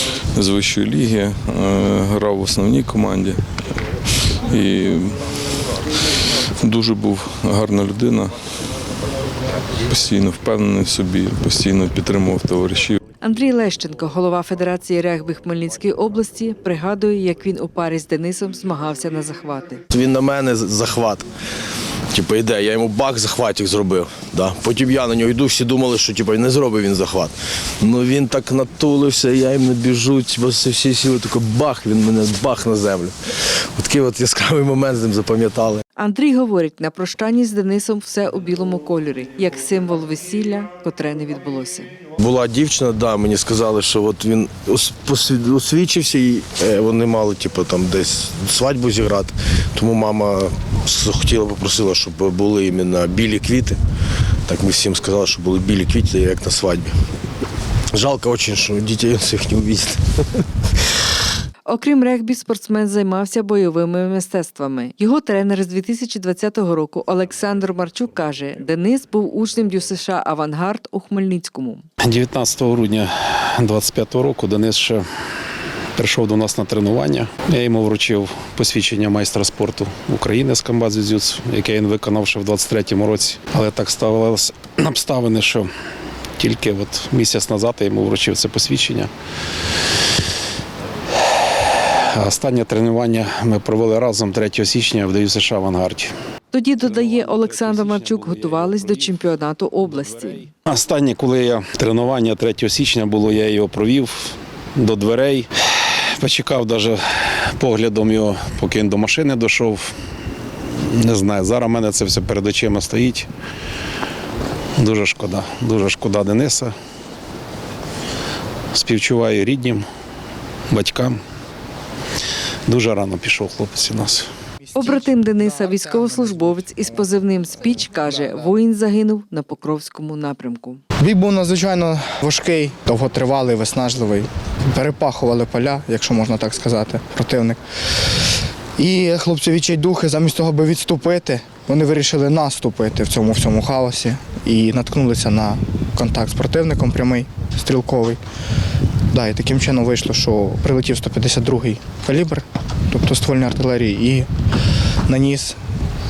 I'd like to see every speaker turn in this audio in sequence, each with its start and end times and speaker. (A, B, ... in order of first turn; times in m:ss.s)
0:00.4-0:03.4 A
0:04.5-0:05.2 A
0:06.6-0:08.3 A
0:09.8-0:13.0 A
0:13.2-0:19.8 B
0:19.9-0:21.2 C
0:22.1-0:33.1 C
0:33.8-0:35.8 C
0:36.0-0:41.9 B
0:42.2-0:53.8 C
0:54.5-0:56.9 C
0:57.9-1:00.4 C
1:01.6-1:11.8 B
1:12.0-1:15.0 D
1:16.0-1:25.7 D
1:26.4-1:29.1 D
1:32.1-1:36.1 D
1:36.5-1:40.5 B
1:36.8-1:39.1 D
1:39.9-1:49.9 D
1:50.8-1:53.3 D
1:54.8-1:56.7 D
1:58.7-1:59.8 D
2:00.7-2:01.2 D
2:02.7-2:04.3 D
2:04.7-2:06.8 E
2:04.7-2:10.8 B
2:11.0-2:18.0 E
2:18.8-2:28.2 E
2:29.1-2:34.3 E
2:35.1-2:35.6 E